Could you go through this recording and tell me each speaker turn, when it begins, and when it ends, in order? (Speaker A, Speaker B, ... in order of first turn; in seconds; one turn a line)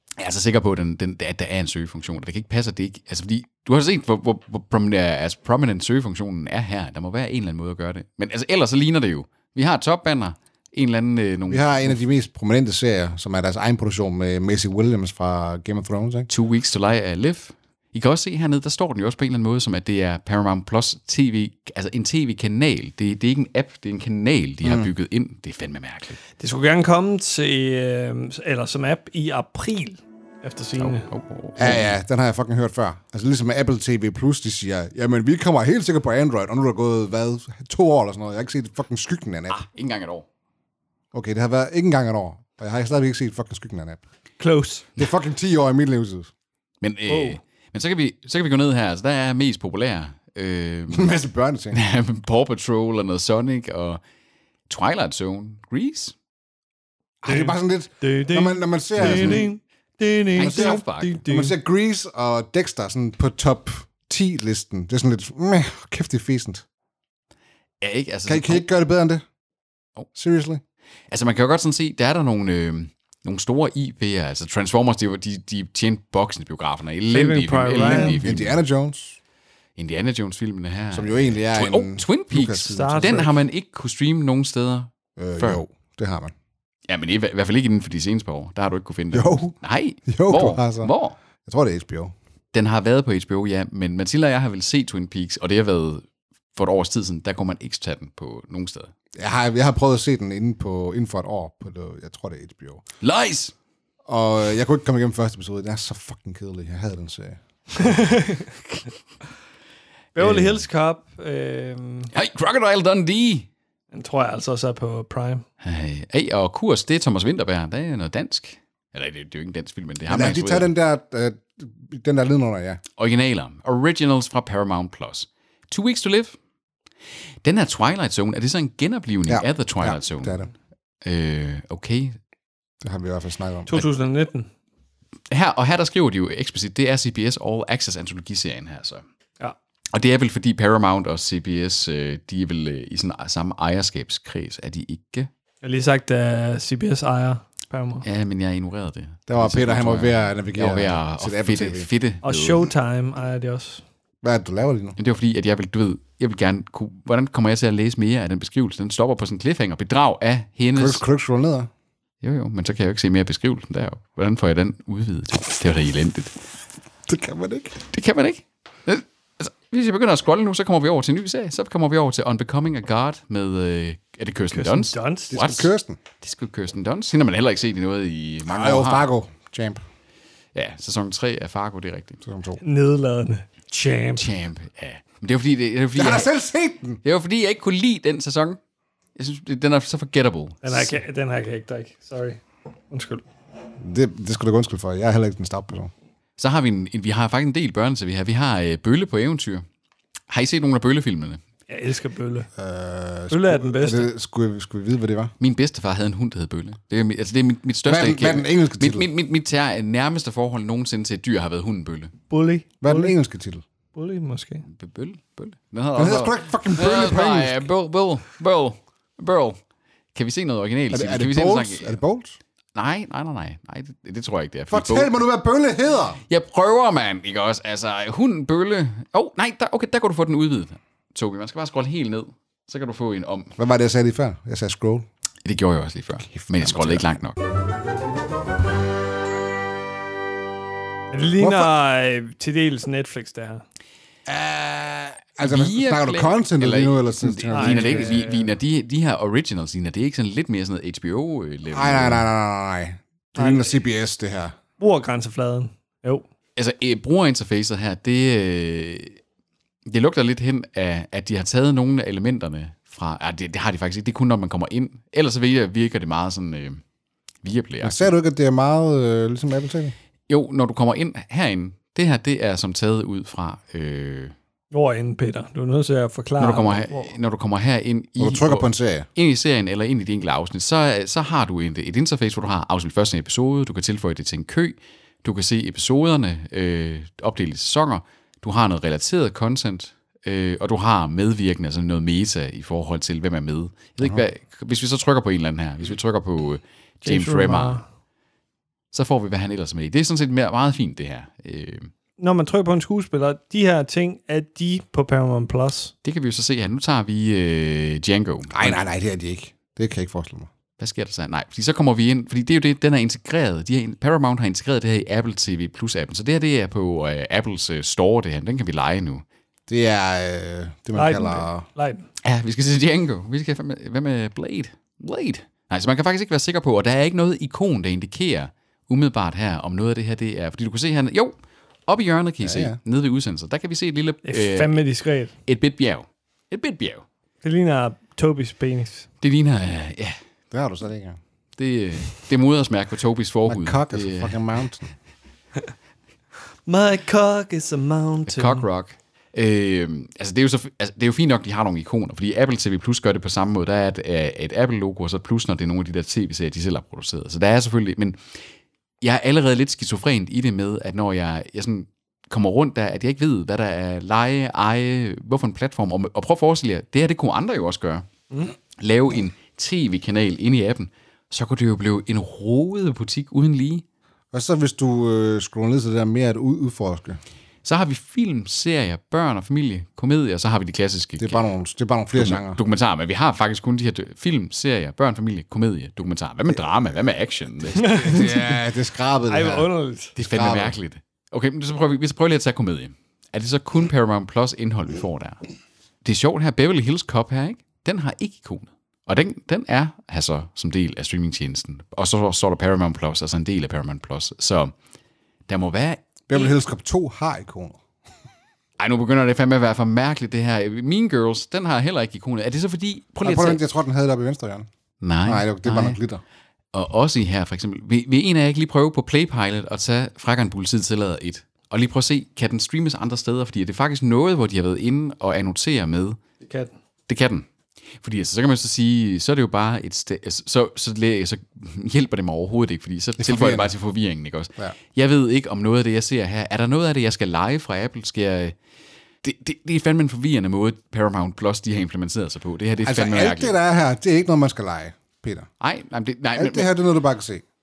Speaker A: 0.2-12.0
Speaker B: 11.5-16.3
Speaker A: 16.3-26.2
Speaker B: 24.6-24.9
Speaker C: 26.4-31.1
Speaker A: 30.8-31.9
Speaker B: 31.6-39.6
Speaker A: 39.5-40.2
Speaker B: 41.1-44.0
Speaker C: 44.4-44.9
Speaker B: 45.0-46.3
Speaker A: 46.8-51.1
Speaker C: 47.1-47.4
Speaker B: 50.9-51.8
Speaker A: 51.7-54.0
Speaker A: 54.7-56.1
Speaker B: 57.2-59.5
Speaker C: 57.2-61.5
Speaker A: 59.0-59.4
Speaker A: 60.3-61.2
Speaker B: 60.4-66.6
Speaker A: 67.8-68.6
Speaker B: 68.3-69.2
Speaker B: 70.1-70.6
Speaker A: 71.1-78.6
Speaker C: 77.1-78.2
Speaker B: 77.8-79.2
Speaker A: 79.8-85.6
Speaker B: 80.9-83.3
Speaker C: 82.7-83.3
Speaker B: 85.2-86.3
Speaker A: 86.9-91.2
Speaker B: 89.1-89.5
Speaker B: 90.1-90.9
Speaker B: 91.4-92.1
Speaker A: 92.5-98.9
Speaker B: 99.2-102.8
Speaker A: 103.0-103.5
Speaker B: 104.0-107.9
Speaker C: 107.8-108.5
Speaker C: 110.2-112.1
Speaker A: 110.2-110.6
Speaker A: 112.1-113.5
Speaker C: 113.9-115.5
Speaker A: 115.6-120.7
Speaker B: 120.1-122.8
Speaker A: 123.0-126.4
Speaker A: 127.4-130.4
Speaker B: 129.3-130.5
Speaker A: 131.0-132.2
Speaker B: 132.8-133.7
Speaker C: 133.7-134.5
Speaker A: 135.3-139.0
Speaker A: 139.9-145.3
Speaker C: 145.6-148.0
Speaker A: 148.0-152.7
Speaker B: 149.3-151.9
Speaker C: 152.2-153.8
Speaker B: 154.2-155.0
Speaker A: 155.0-161.0
Speaker B: 160.8-161.7
Speaker A: 162.2-166.3
Speaker B: 167.1-167.8
Speaker A: 167.9-179.1
Speaker C: 174.5-175.4
Speaker B: 175.3-176.0
Speaker B: 178.5-179.8
Speaker A: 180.5-182.2
Speaker B: 182.2-182.6
Speaker C: 182.6-184.3
Speaker A: 184.2-186.3
Speaker B: 185.9-187.0
Speaker A: 187.0-188.6
Speaker A: 189.2-191.0
Speaker C: 190.6-193.2
Speaker B: 193.8-195.9
Speaker A: 196.4-199.6
Speaker A: 200.3-201.4
Speaker C: 201.7-202.5
Speaker B: 202.6-205.3
Speaker C: 203.3-204.1
Speaker A: 205.4-212.1
Speaker B: 207.8-209.1
Speaker C: 212.3-213.1
Speaker B: 212.8-213.6
Speaker C: 213.9-214.6
Speaker A: 214.6-219.6
Speaker B: 216.0-217.7
Speaker A: 220.1-222.0
Speaker B: 220.9-222.4
Speaker A: 222.8-225.1
Speaker B: 224.7-226.2
Speaker A: 226.3-233.6
Speaker B: 233.6-235.1
Speaker A: 235.4-237.4
Speaker B: 236.2-237.2
Speaker C: 241.1-243.6
Speaker B: 241.4-241.7
Speaker B: 244.2-248.2
Speaker A: 245.4-252.3
Speaker C: 247.5-248.5
Speaker B: 251.7-254.6
Speaker C: 253.4-253.8
Speaker C: 254.8-256.2
Speaker A: 256.6-259.2
Speaker A: 259.9-266.8
Speaker A: 267.4-268.1
Speaker B: 267.8-269.9
Speaker A: 270.3-274.3
Speaker C: 274.7-277.1
Speaker A: 276.4-297.8
Speaker B: 278.2-279.1
Speaker C: 297.0-297.8
Speaker A: 298.9-301.9
Speaker C: 302.2-305.9
Speaker A: 306.0-308.8
Speaker B: 308.5-310.5
Speaker A: 310.8-319.2
Speaker B: 319.7-321.6
Speaker C: 320.9-322.1
Speaker A: 322.2-334.8
Speaker B: 332.4-332.8
Speaker C: 334.2-335.3
Speaker A: 335.5-337.0
Speaker C: 337.4-339.1
Speaker A: 339.2-340.2
Speaker B: 340.5-341.2
Speaker A: 341.6-344.4
Speaker B: 343.5-344.9
Speaker C: 346.6-348.6
Speaker A: 348.3-358.2
Speaker A: 359.0-368.1
Speaker A: 368.7-373.9
Speaker B: 374.3-377.2
Speaker A: 377.6-381.4
Speaker B: 381.2-382.6
Speaker A: 382.1-388.2
Speaker C: 387.8-388.6
Speaker B: 387.9-389.7
Speaker C: 389.3-390.1
Speaker A: 390.1-395.4
Speaker B: 390.2-390.8
Speaker A: 396.0-404.7
Speaker A: 405.5-406.5
Speaker B: 406.3-407.8
Speaker A: 408.8-413.6
Speaker B: 413.2-414.7
Speaker A: 415.0-416.0
Speaker B: 415.2-416.2
Speaker A: 416.7-426.2
Speaker C: 426.4-426.7
Speaker A: 427.1-427.5
Speaker A: 428.0-438.6
Speaker B: 433.2-433.7
Speaker A: 439.2-443.5
Speaker B: 442.8-445.5
Speaker A: 445.6-446.7
Speaker B: 446.4-447.4